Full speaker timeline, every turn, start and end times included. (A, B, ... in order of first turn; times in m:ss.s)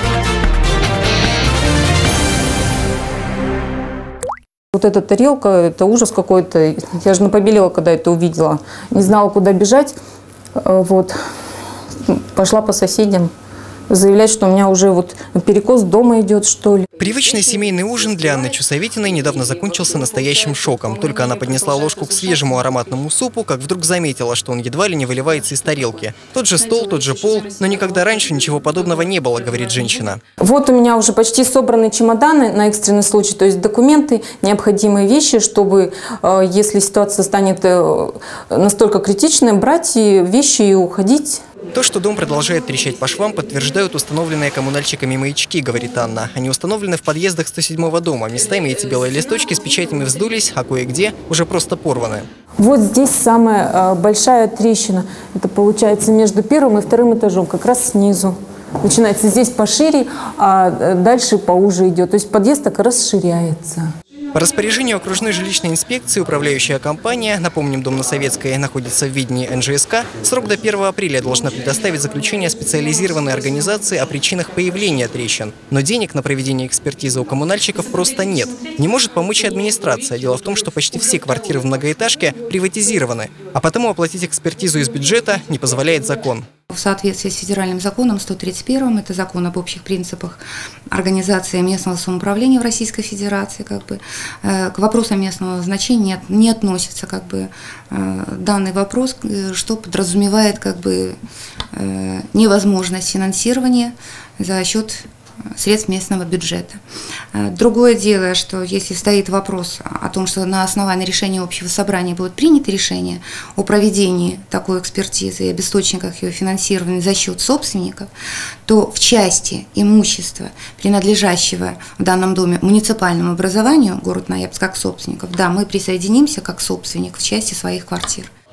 0:04.7-0:09.9 A
0:10.6-0:11.1 A
0:12.0-0:13.3 A
0:13.9-0:16.9 A
0:17.0-0:30.2 B
0:30.4-0:41.4 A
0:41.7-0:52.3 B
0:52.6-1:03.9 A
1:04.3-1:26.5 B
1:26.7-1:41.2 C
1:41.7-1:46.8 C
1:47.3-1:58.1 C
1:58.6-2:08.3 C